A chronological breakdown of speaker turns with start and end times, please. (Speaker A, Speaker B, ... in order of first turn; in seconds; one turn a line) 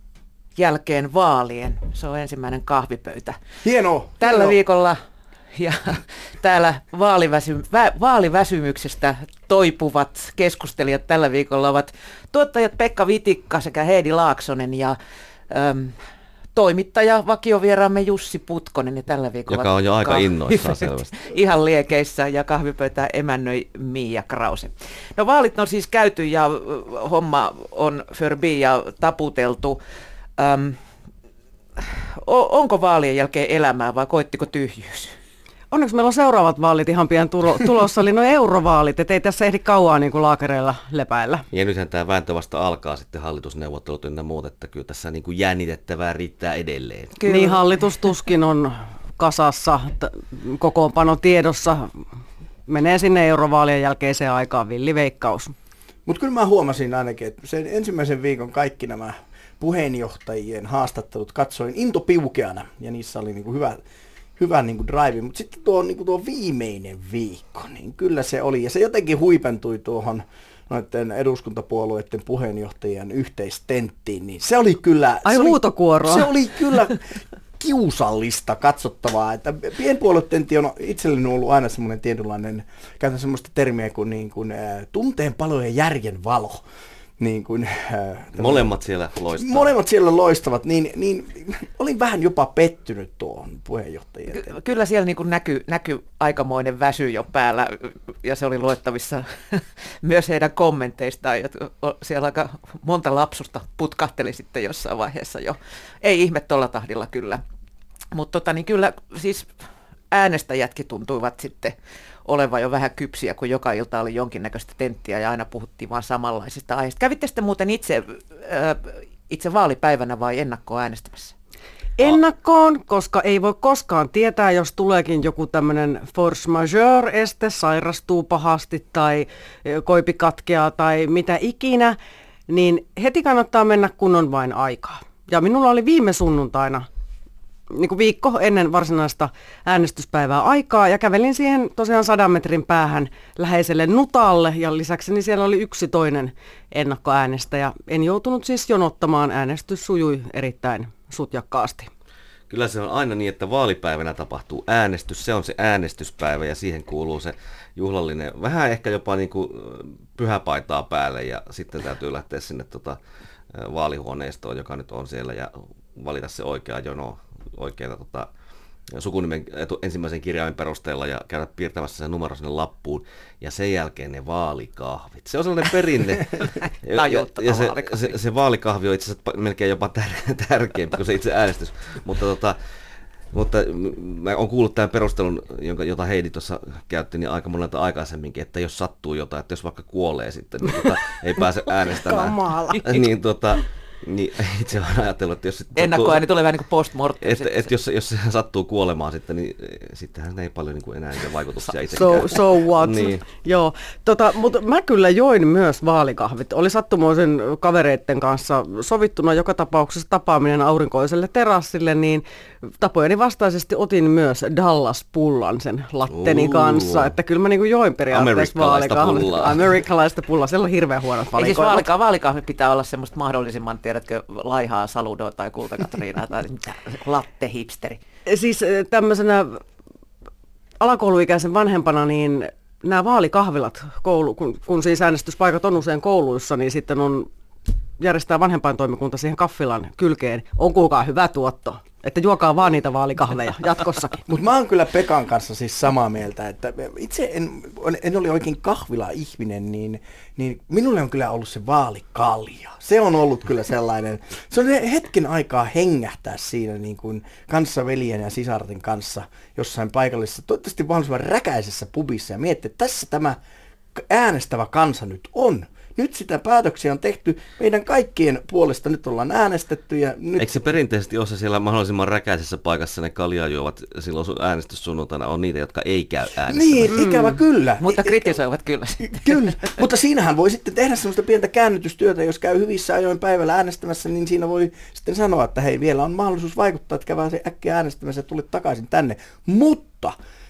Speaker A: 0.6-3.4
Speaker B: 3.6-4.6
Speaker A: 4.2-5.0
Speaker A: 5.5-15.0
Speaker A: 15.5-15.9
Speaker A: 16.5-29.8
Speaker C: 19.5-21.2
Speaker A: 30.4-30.8
Speaker A: 31.8-35.1
Speaker D: 35.7-41.5
Speaker C: 41.5-47.2
Speaker A: 47.2-47.8
Speaker D: 47.2-52.0
Speaker D: 52.7-55.5
Speaker B: 56.0-63.8
Speaker B: 64.4-86.6
Speaker D: 75.2-76.3
Speaker B: 87.2-88.7
Speaker C: 88.3-89.7
Speaker B: 89.3-94.5
Speaker A: 94.3-107.4
Speaker A: 108.1-109.5
Speaker A: 110.1-111.7
Speaker A: 112.2-121.3
Speaker D: 122.0-131.9
Speaker D: 132.5-136.8
Speaker D: 137.7-151.9
Speaker C: 152.5-163.0
Speaker C: 163.5-168.3
Speaker C: 168.9-182.6
Speaker A: 176.9-178.2
Speaker C: 183.3-196.2
Speaker D: 191.9-193.0
Speaker A: 195.8-197.7
Speaker C: 197.2-203.2
Speaker D: 201.9-212.2
Speaker D: 212.8-221.9
Speaker C: 216.1-217.1
Speaker C: 218.1-219.8
Speaker A: 221.3-228.0
Speaker D: 228.3-229.6
Speaker D: 230.8-237.3
Speaker D: 238.0-244.2
Speaker B: 244.3-263.4
Speaker B: 263.9-270.6
Speaker C: 270.4-276.9
Speaker B: 276.5-278.4
Speaker D: 276.9-277.4
Speaker A: 277.8-279.4
Speaker B: 279.0-290.1